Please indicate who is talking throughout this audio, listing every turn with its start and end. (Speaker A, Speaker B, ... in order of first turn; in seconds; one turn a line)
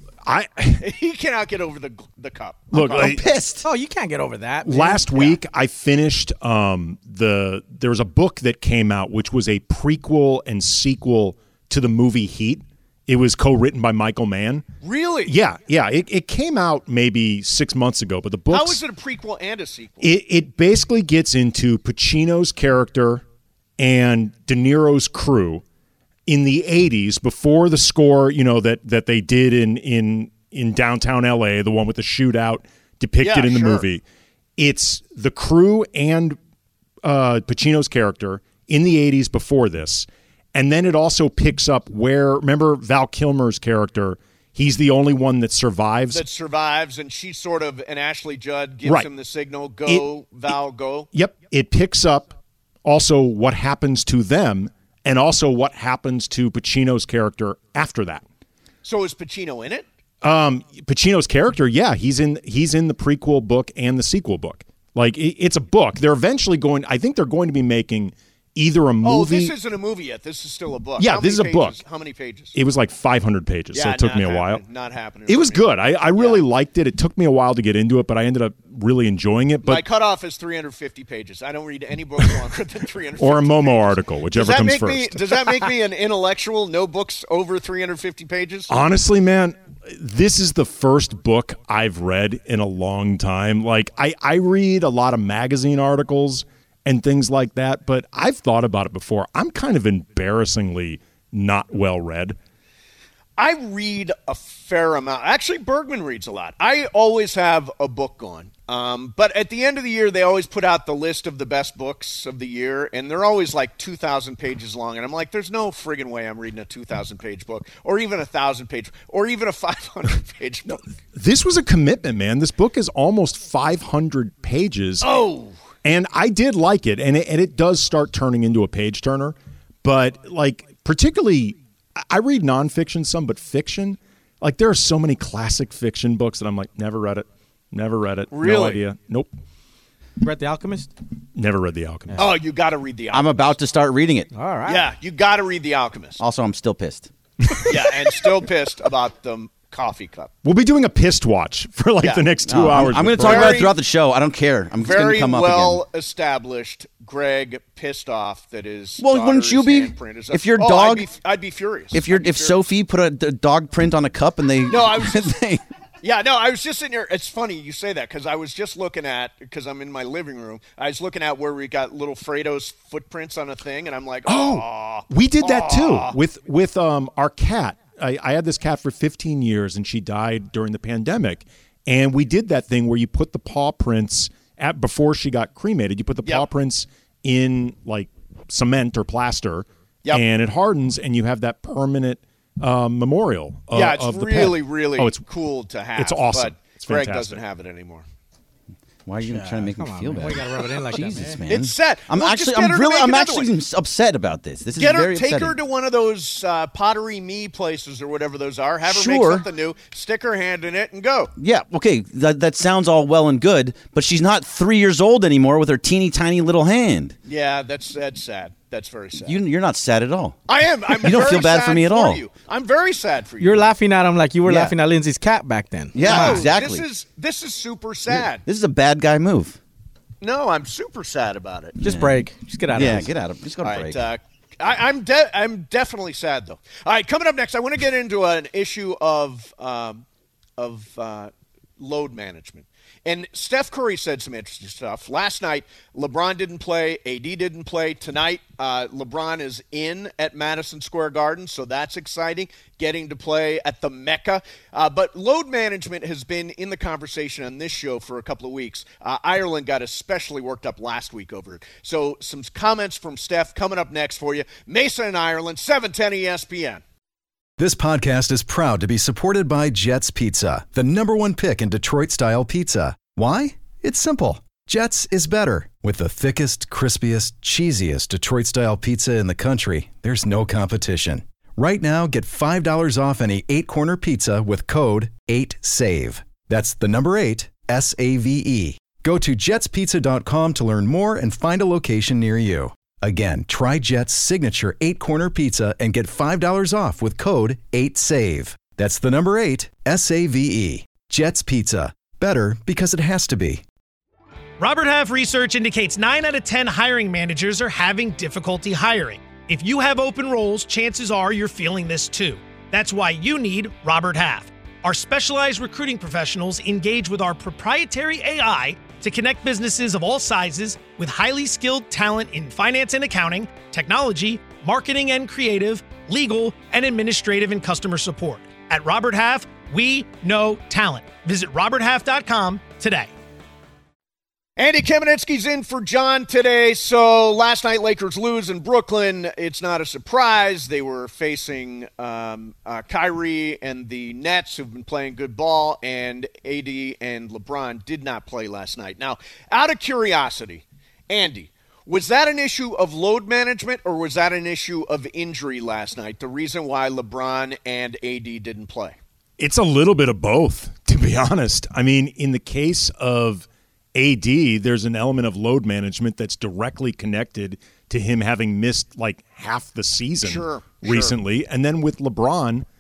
Speaker A: 0.2-0.9
Speaker B: 0.8-3.1
Speaker A: 2.7-3.3
Speaker C: 2.8-3.7
Speaker D: 3.6-5.2
Speaker A: 4.6-14.7
Speaker B: 14.8-15.3
Speaker A: 15.2-18.8
Speaker B: 18.5-20.2
Speaker A: 20.0-23.2
Speaker A: 23.8-25.6
Speaker A: 26.3-34.0
Speaker B: 33.2-33.9
Speaker A: 34.6-36.4
Speaker A: 37.0-46.2
Speaker B: 46.1-51.1
Speaker A: 49.9-50.5
Speaker A: 51.1-58.2
Speaker B: 58.8-59.9
Speaker A: 60.2-69.5
Speaker B: 69.0-72.5
Speaker A: 71.0-71.8
Speaker A: 72.5-74.6
Speaker B: 73.7-76.4
Speaker A: 75.3-79.8
Speaker B: 79.6-88.7
Speaker A: 83.2-85.7
Speaker A: 88.7-102.4
Speaker B: 103.4-120.8
Speaker A: 120.7-125.2
Speaker B: 125.0-125.5
Speaker A: 125.8-139.3
Speaker B: 138.3-138.8
Speaker D: 140.2-140.9
Speaker A: 141.3-142.3
Speaker B: 142.2-143.6
Speaker C: 143.1-144.3
Speaker D: 144.3-144.9
Speaker B: 144.6-146.2
Speaker C: 146.2-147.1
Speaker B: 147.7-150.3
Speaker A: 150.4-153.7
Speaker B: 152.0-153.8
Speaker C: 152.5-155.8
Speaker B: 154.8-162.6
Speaker C: 159.0-161.1
Speaker C: 161.9-165.6
Speaker B: 164.7-165.3
Speaker B: 166.0-176.2
Speaker A: 174.3-195.2
Speaker B: 193.7-198.0
Speaker A: 196.0-197.4
Speaker C: 199.1-205.5
Speaker D: 199.3-201.4
Speaker B: 201.5-203.5
Speaker B: 204.8-211.3
Speaker C: 208.9-209.5
Speaker C: 211.4-217.2
Speaker B: 217.3-219.4
Speaker C: 219.3-220.4
Speaker B: 220.5-223.7
Speaker C: 220.9-222.2
Speaker D: 223.4-226.5
Speaker C: 224.4-224.8
Speaker C: 225.9-226.9
Speaker B: 226.0-228.4
Speaker C: 228.1-229.6
Speaker B: 230.2-231.8
Speaker C: 231.8-234.1
Speaker D: 231.8-233.1
Speaker B: 233.6-240.0
Speaker B: 240.6-266.8
Speaker E: 267.6-303.6
Speaker F: 304.6-333.1
Speaker B: 334.6-359.0
Speaker A: 359.4-372.7
Speaker B: 370.2-371.2